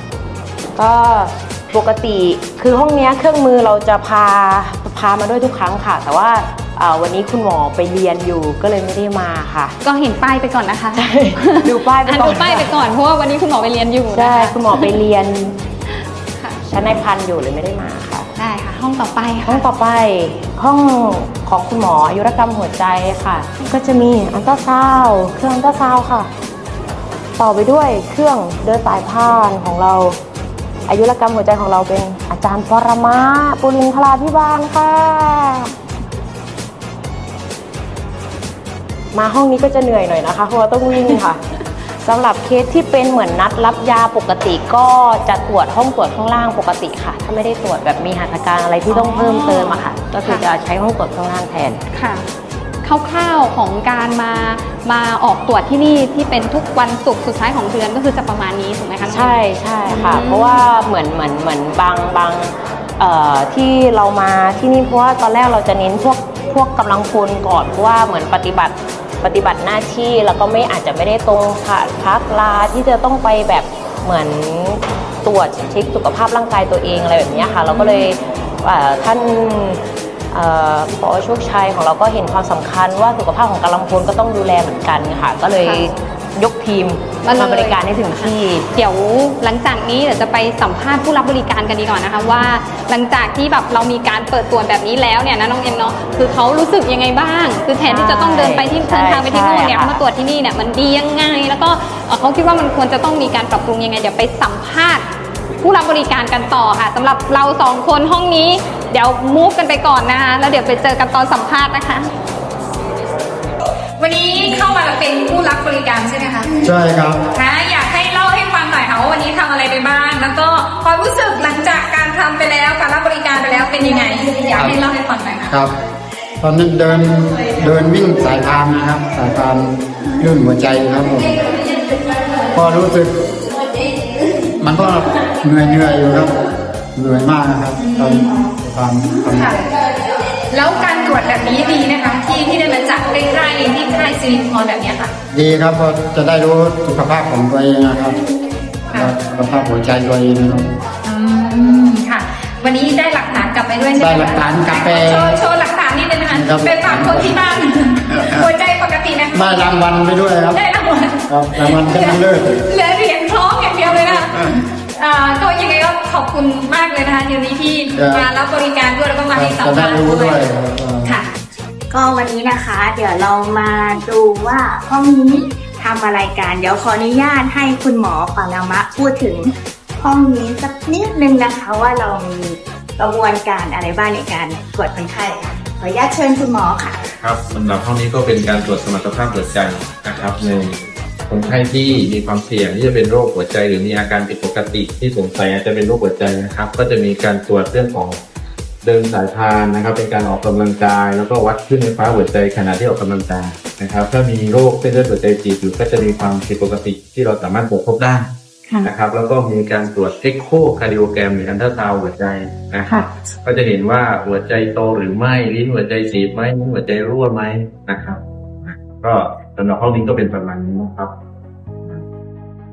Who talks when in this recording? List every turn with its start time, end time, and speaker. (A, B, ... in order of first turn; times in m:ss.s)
0:00.8-0:09.8 A
0:09.8-0:15.0 B
0:11.0-0:12.8 A
0:14.1-0:15.6 A
0:15.9-0:16.6 B
0:16.7-0:18.3 A
0:18.4-0:19.7 B
0:19.4-0:26.3 A
0:27.4-0:30.2 A
0:30.9-0:35.7 A
0:39.1-0:41.4 A
0:42.0-0:51.8 A
0:48.9-0:50.4 B
0:51.9-0:52.2 B
0:52.8-1:00.7 B
0:59.1-1:28.7 A
1:17.3-1:18.1 B
1:25.6-1:25.8 B
1:27.2-1:45.0 B
1:37.8-1:40.0 A
1:45.6-1:52.1 B
1:54.0-1:56.6 B
1:56.6-1:57.2 C
1:57.3-2:05.5 B
2:04.5-2:04.8 C
2:06.4-2:11.4 C
2:12.5-2:13.1 C
2:14.6-2:16.3 C
2:17.0-2:19.5 C
2:17.8-2:18.4 B
2:19.3-2:19.6 B
2:20.5-2:25.1 B
2:25.3-2:28.2 C
2:28.9-2:30.7 C
2:31.0-2:39.8 B
2:34.0-2:35.4 C
2:36.3-2:37.5 C
2:38.1-2:38.5 C
2:39.3-2:40.6 C
2:40.5-2:50.4 B
2:41.3-2:42.6 C
2:43.9-2:44.4 C
2:47.9-2:48.3 C
2:49.3-2:51.1 C
2:51.0-2:51.3 B
2:51.9-3:07.0 D
3:07.2-3:18.2 E
3:18.8-3:28.3 E
3:28.8-3:41.1 E